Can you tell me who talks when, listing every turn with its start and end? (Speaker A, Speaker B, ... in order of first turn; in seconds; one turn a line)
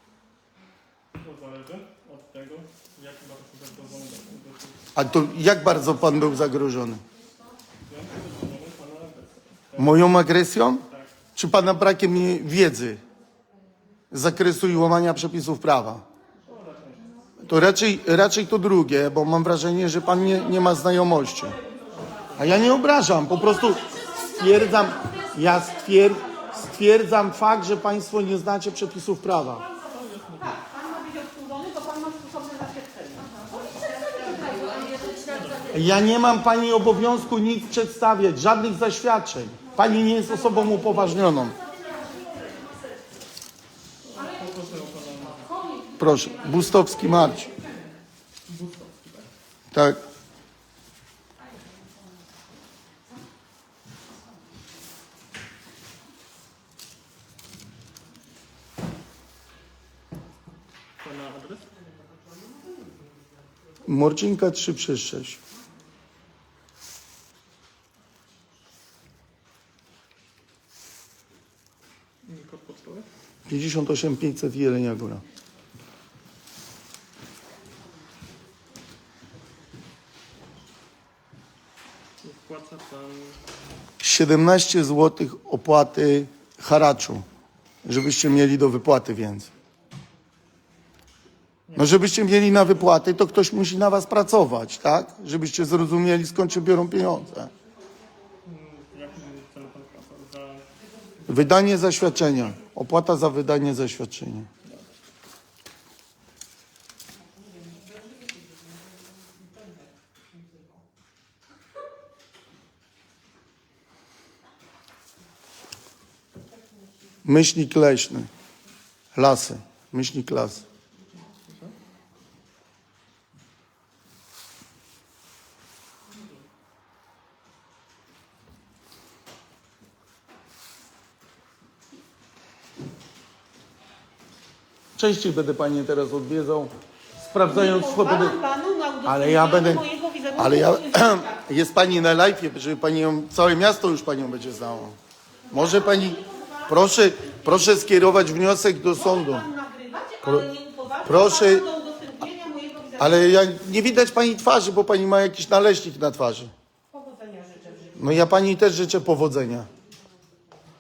Speaker A: 1.2-4.7
Speaker B: 5.0-7.0
Speaker A: 7.9-9.9
Speaker B: 9.8-10.8
Speaker B: 11.4-13.0
Speaker B: 14.1-16.0
Speaker A: 16.4-17.1
Speaker B: 17.4-21.6
Speaker A: 22.2-22.6
Speaker B: 22.4-29.7
Speaker C: 24.1-25.3
Speaker A: 29.8-30.6
Speaker C: 30.4-35.8
Speaker A: 35.3-35.7
Speaker B: 35.7-41.6
Speaker C: 40.5-42.7
Speaker A: 44.1-45.5
Speaker C: 45.6-47.5
Speaker B: 46.0-47.5
Speaker A: 48.5-49.3
Speaker B: 49.7-50.0
Speaker A: 61.0-61.6
Speaker C: 62.1-62.9
Speaker B: 63.9-65.4
Speaker A: 72.2-73.1
Speaker B: 73.5-75.2
Speaker A: 82.2-83.3
Speaker B: 84.0-87.2
Speaker B: 87.8-89.5
Speaker A: 91.7-92.0
Speaker B: 91.8-97.5
Speaker A: 98.4-100.6
Speaker B: 101.2-104.5
Speaker C: 107.4-110.6
Speaker B: 117.2-118.3
Speaker B: 119.2-120.7
Speaker B: 135.0-138.4
Speaker C: 137.4-141.3
Speaker B: 139.0-145.0
Speaker C: 145.5-147.9
Speaker B: 145.5-149.5
Speaker C: 149.0-153.2
Speaker B: 150.2-150.5
Speaker B: 151.0-151.7
Speaker B: 153.0-156.5
Speaker C: 156.9-158.1
Speaker B: 158.0-159.7